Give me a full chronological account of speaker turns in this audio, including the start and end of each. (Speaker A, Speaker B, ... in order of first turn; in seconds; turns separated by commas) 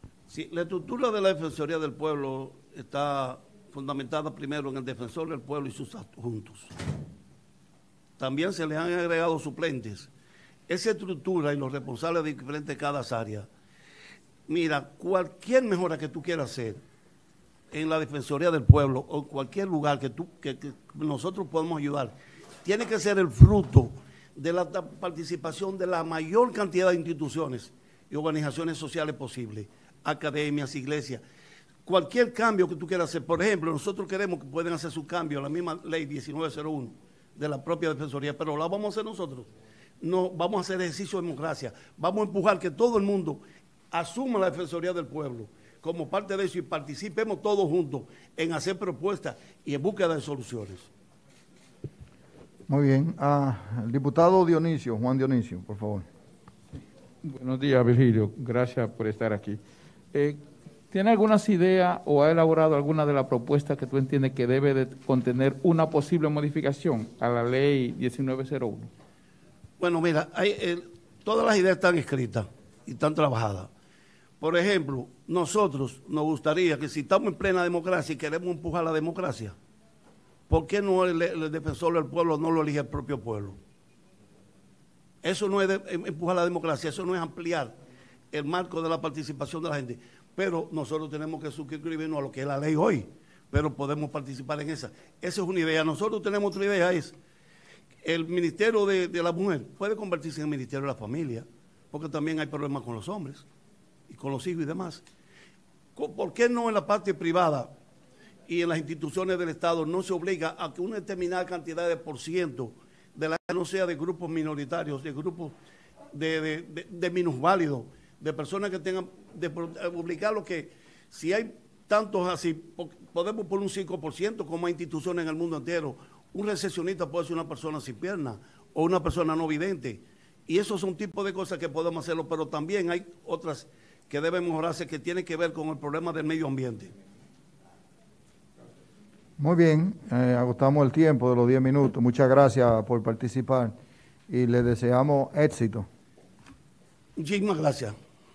Speaker A: 0.3-6.7, Speaker A: 8.2-10.1, Speaker A: 10.7-13.5, Speaker A: 14.5-16.8, Speaker A: 17.7-31.2, Speaker A: 31.9-39.5, Speaker A: 40.0-43.4, Speaker A: 43.9-50.9, Speaker B: 52.7-56.1, Speaker C: 57.2-59.6, Speaker C: 60.1-68.9, Speaker A: 69.8-73.7, Speaker A: 74.4-79.5, Speaker A: 80.5-83.6, Speaker A: 85.2-87.8, Speaker A: 88.3-97.2, Speaker A: 98.0-103.5, Speaker A: 104.1-105.0, Speaker A: 106.0-107.7, Speaker A: 108.5-115.5, Speaker A: 116.1-136.9, Speaker B: 139.4-143.7, Speaker B: 144.3-145.9, Speaker A: 147.2-147.9